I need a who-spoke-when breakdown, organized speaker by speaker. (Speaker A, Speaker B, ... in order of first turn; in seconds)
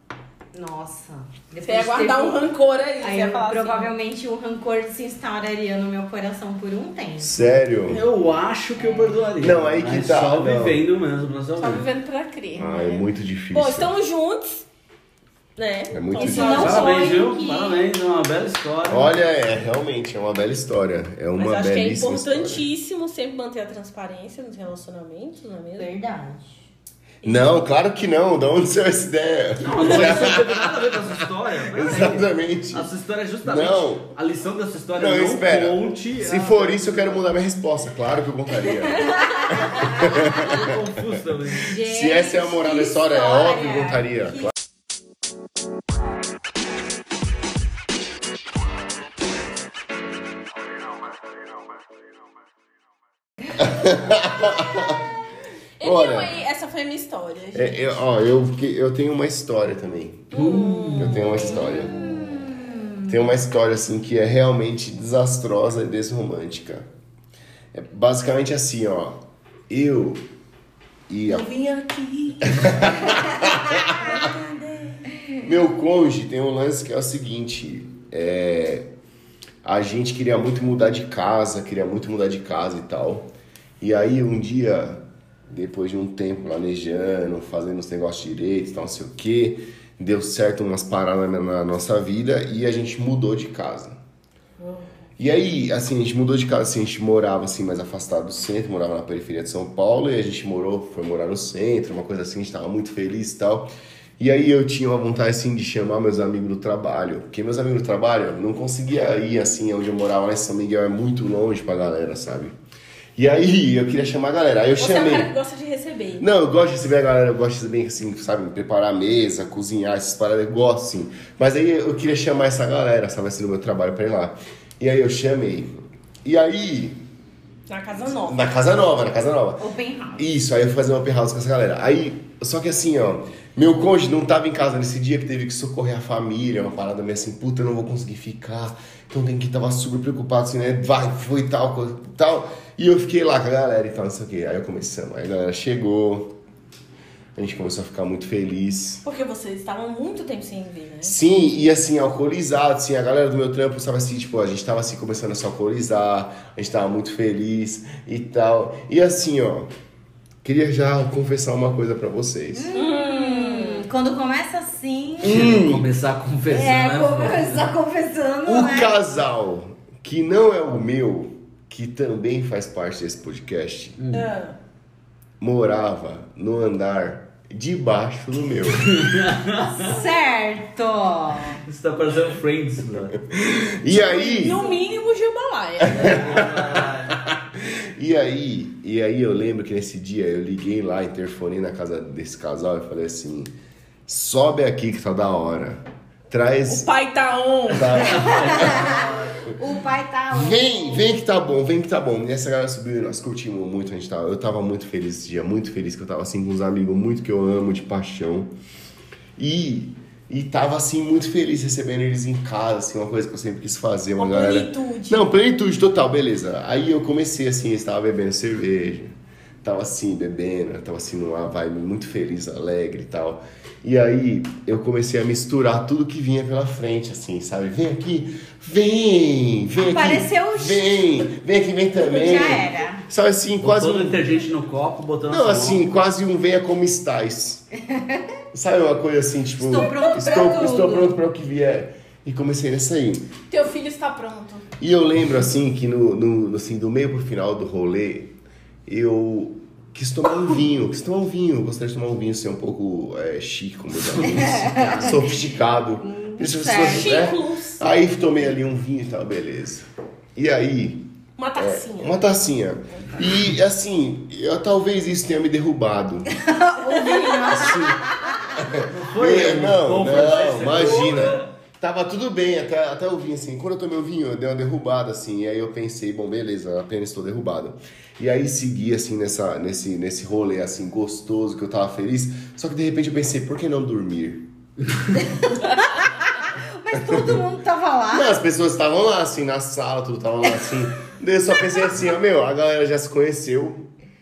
Speaker A: 0.5-2.4, 3.0-7.4, 8.8-9.1, 16.1-17.8, 25.8-26.6, 39.1-39.9, 41.6-44.5, 60.8-63.1, 129.6-130.2, 162.5-165.5, 166.5-168.9, 179.7-181.6, 184.5-184.8, 198.1-201.1, 229.8-231.2, 232.0-233.0, 237.9-238.2, 239.6-241.1, 254.2-255.1, 256.0-257.4, 266.3-268.6, 285.4-288.4
Speaker B: 1.6-3.9, 11.6-14.6, 15.6-16.9, 21.4-25.9, 27.2-27.5, 55.8-58.0, 60.3-61.3, 71.3-75.1, 114.8-116.2, 127.7-128.4, 149.0-151.2, 162.7-163.8, 174.1-174.6, 183.9-186.2, 196.7-198.1, 214.2-215.2, 240.1-240.6, 243.5-244.7, 256.8-257.8, 261.4-262.2, 266.8-267.8, 270.2-271.4
Speaker C: 7.2-8.0, 9.4-10.8, 12.6-13.9, 15.9-16.8, 18.9-22.6, 27.2-30.9, 31.7-32.9, 33.4-34.1, 35.0-40.8, 41.8-44.5, 53.5-55.0, 55.8-56.4, 57.5-62.2, 63.0-66.9, 67.7-70.2, 71.1-71.5, 72.5-74.2, 75.4-78.9, 79.6-94.0, 95.2-112.5, 113.2-115.3, 116.2-127.0, 128.1-129.7, 130.2-146.3, 147.3-149.0, 151.0-159.7, 160.4-162.7, 165.2-165.8, 168.4-174.0, 175.4-179.0, 183.2-184.6, 185.8-193.5, 194.1-196.9, 197.7-199.0, 200.3-208.5, 209.4-234.2, 235.3-237.7, 238.5-243.2, 244.8-248.3, 248.8-261.0, 261.6-266.3, 267.5-284.5, 287.0-287.4, 288.1-293.9
Speaker D: 7.9-11.8, 16.3-19.2, 29.6-37.2, 40.2-41.8, 60.3-61.4, 165.2-167.6, 174.0-174.3, 178.8-179.9, 181.6-183.2, 185.9-187.2, 197.9-199.5, 233.6-235.9, 254.0-255.3, 268.9-271.5